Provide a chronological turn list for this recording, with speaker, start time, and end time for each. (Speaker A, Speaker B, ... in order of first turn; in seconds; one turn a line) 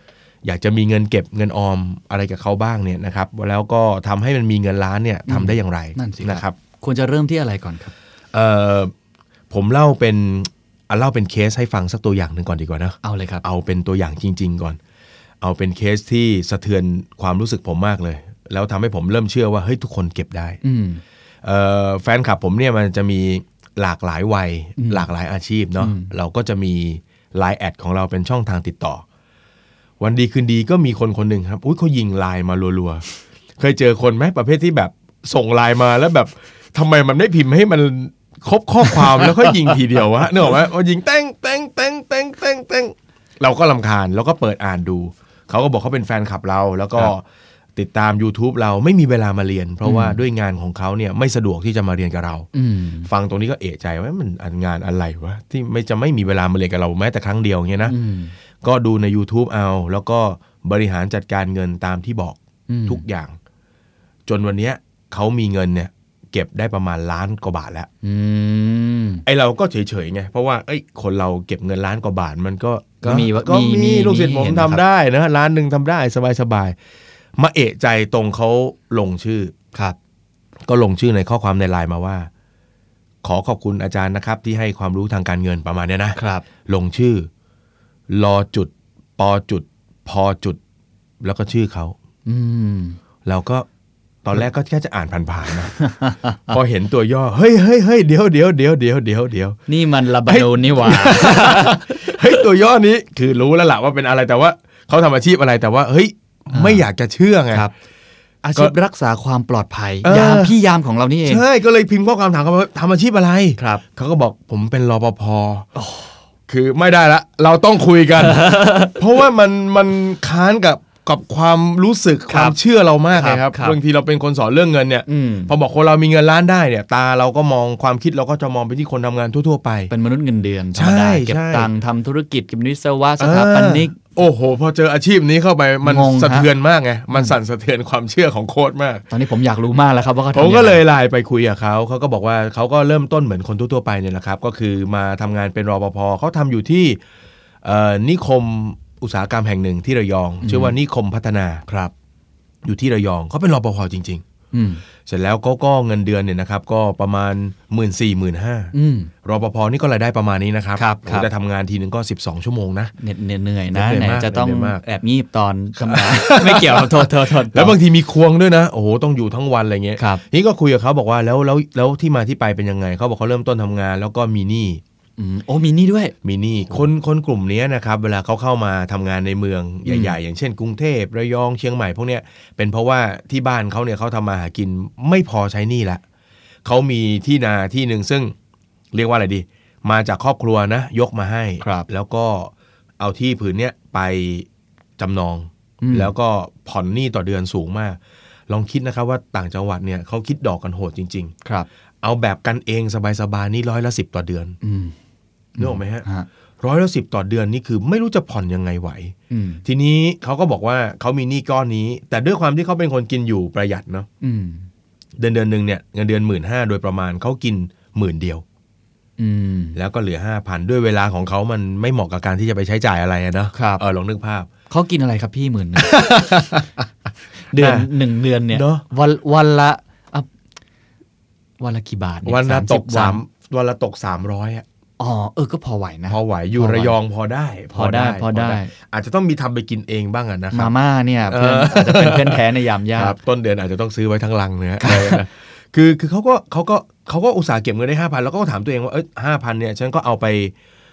Speaker A: 0.4-6.5
Speaker B: 5.3-7.9
Speaker A: 8.3-8.9
Speaker A: 9.5-14.8
Speaker B: 13.0-13.4
Speaker A: 15.4-20.6
Speaker B: 20.6-21.0
Speaker A: 21.4-29.0
Speaker B: 24.8-25.1
Speaker B: 25.8-26.1
Speaker A: 30.0-33.0
Speaker A: 33.6-47.2
Speaker B: 39.2-39.7
Speaker A: 47.8-52.5
Speaker B: 49.8-50.2
Speaker B: 52.5-53.1
Speaker A: 53.0-57.9
Speaker B: 57.9-58.3
Speaker A: 58.6-63.3
Speaker B: 62.7-63.0
Speaker A: 64.3-67.9
Speaker B: 68.0-69.2
Speaker A: 69.2-76.8
Speaker B: 73.0-74.8
Speaker A: 77.4-79.5
Speaker A: 80.7-82.3
Speaker A: 83.2-87.3
Speaker B: 86.1-86.4
Speaker A: 88.1-90.6
Speaker A: 91.2-91.9
Speaker B: 92.2-93.0
Speaker A: 93.2-93.7
Speaker A: 94.2-95.7
Speaker B: 95.7-96.5
Speaker A: 96.5-99.6
Speaker B: 99.7-102.3
Speaker A: 100.2-107.7
Speaker B: 106.5-106.8
Speaker B: 108.4-111.4
Speaker A: 110.0-110.5
Speaker A: 111.2-115.7
Speaker B: 113.6-113.8
Speaker B: 115.8-116.1
Speaker A: 116.5-129.9
Speaker B: 118.2-119.0
Speaker B: 122.3-122.5
Speaker B: 123.1-123.8
Speaker B: 125.1-125.5
Speaker B: 129.9-134.0
Speaker A: 130.7-131.7
Speaker A: 133.2-139.1
Speaker B: 135.8-136.5
Speaker B: 139.1-140.8
Speaker A: 140.3-147.0
Speaker A: 147.6-151.7
Speaker B: 150.4-150.8
Speaker A: 152.6-154.2
Speaker B: 154.5-154.8
Speaker A: 155.1-162.9
Speaker B: 158.7-159.1
Speaker B: 160.8-161.3
Speaker B: 163.0-167.8
Speaker A: 163.7-164.8
Speaker A: 165.8-174.8
Speaker B: 170.0-170.2
Speaker B: 175.2-176.1
Speaker A: 176.2-186.0
Speaker B: 179.8-180.2
Speaker A: 186.6-188.3
Speaker A: 188.9-194.5
Speaker B: 191.6-191.8
Speaker A: 195.0-201.3
Speaker B: 195.8-196.1
Speaker A: 202.0-204.6
Speaker B: 204.6-204.9
Speaker B: 205.6-206.3
Speaker A: 205.6-206.1
Speaker A: 206.6-214.1
Speaker B: 209.3-209.6
Speaker B: 214.2-214.7
Speaker A: 215.2-218.4
Speaker B: 219.2-219.8
Speaker A: 219.7-224.5
Speaker B: 223.5-223.8
Speaker B: 224.7-226.0
Speaker A: 225.8-226.8
Speaker B: 227.5-230.2
Speaker A: 227.5-227.9
Speaker A: 228.5-228.8
Speaker B: 231.6-233.2
Speaker A: 232.2-234.6
Speaker B: 235.0-236.9
Speaker A: 236.1-240.7
Speaker B: 237.7-238.7
Speaker B: 240.5-243.2
Speaker A: 241.3-242.4
Speaker A: 242.9-250.5
Speaker B: 244.8-245.2